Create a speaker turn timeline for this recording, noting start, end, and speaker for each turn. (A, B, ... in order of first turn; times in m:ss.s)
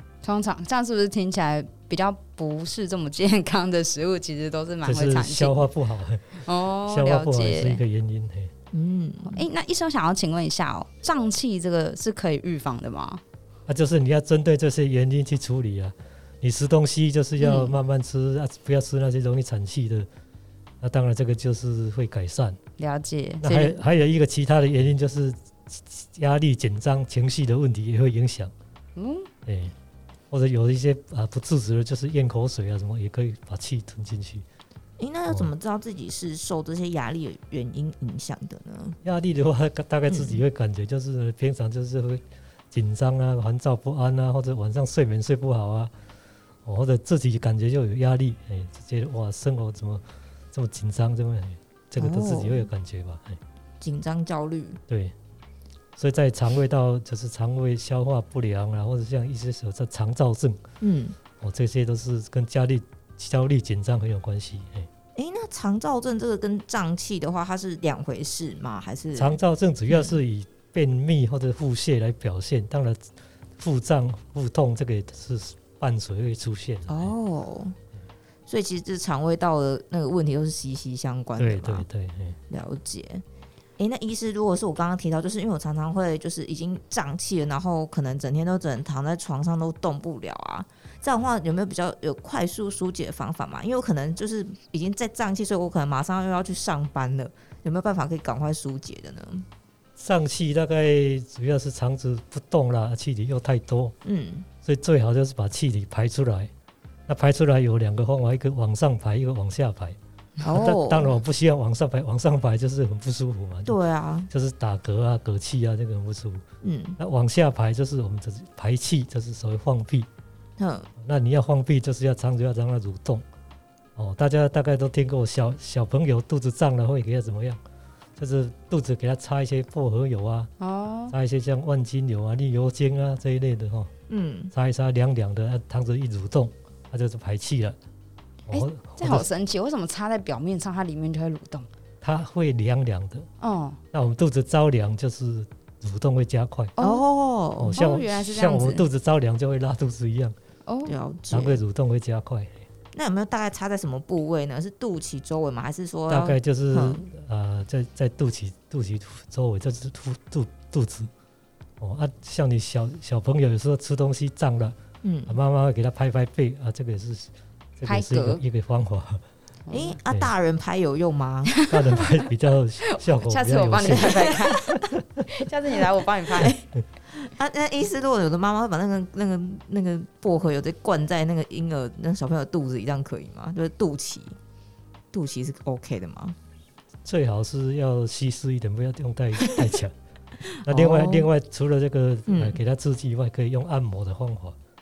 0:00.2-0:05.7 A
0:04.8-0:08.5 B
0:06.4-0:07.8 A
0:08.7-0:09.4 C
0:09.2-0:13.2 A
0:13.7-0:20.1 B
0:17.4-0:17.8 C
0:20.8-0:22.6 B
0:22.8-0:23.8 A
0:23.4-0:28.5 B
0:29.0-0:29.3 A
0:29.4-0:29.7 B
0:30.3-0:34.4 B
0:35.0-0:39.0 C
0:39.0-0:45.9 B
0:40.1-0:40.4 C
0:46.6-0:53.4 B
0:52.0-0:52.7 C
0:53.8-0:54.8 C
0:54.9-0:55.1 B
0:56.0-1:00.6 B
1:00.8-1:01.2 C
1:01.4-1:04.9 B
1:05.2-1:09.4 C
1:09.2-1:17.1 B
1:09.9-1:10.2 C
1:16.9-1:17.8 C
1:18.5-1:21.8 C
1:21.4-1:22.4 B
1:22.5-1:23.2 C
1:23.8-1:39.4 C
1:40.0-1:43.9 B
1:44.0-1:44.5 C
1:44.6-1:46.5 B
1:47.1-1:50.0 B
1:50.4-1:51.2 C
1:50.5-1:53.8 B
1:53.7-1:54.3 C
1:54.3-1:56.4 B
1:56.6-1:57.0 C
1:57.0-2:00.1 B
2:00.6-2:00.9 C
2:01.0-2:03.2 B
2:04.0-2:07.6 B
2:08.2-2:10.5 B
2:10.6-2:11.1 A
2:11.1-2:13.9 B
2:14.1-2:14.5 C
2:14.5-2:17.8 B
2:18.5-2:19.2 B
2:18.5-2:21.7 A
2:22.0-2:23.2 B
2:23.4-2:23.8 A
2:23.9-2:26.7 B
2:26.8-2:27.0 A
2:26.8-2:27.7 C
2:27.6-2:30.4 B
2:27.7-2:28.8 A
2:30.6-2:30.9 A
2:30.8-2:31.6 C
2:31.3-2:32.6 B
2:32.9-2:37.0 C
2:36.1-2:41.1 B
2:41.8-2:49.2 B
2:45.0-2:45.4 C
2:47.8-2:48.4 A
2:49.6-2:50.0 A
2:49.7-2:51.5 C
2:51.5-2:52.2 A
2:51.7-2:55.2 B
2:52.9-2:56.6 A
2:57.1-3:04.4 C
3:05.1-3:06.4 C
3:07.0-3:09.9 B
3:09.4-3:09.7 C
3:10.5-3:11.3 C
3:10.6-3:14.6 B
3:12.3-3:12.6 C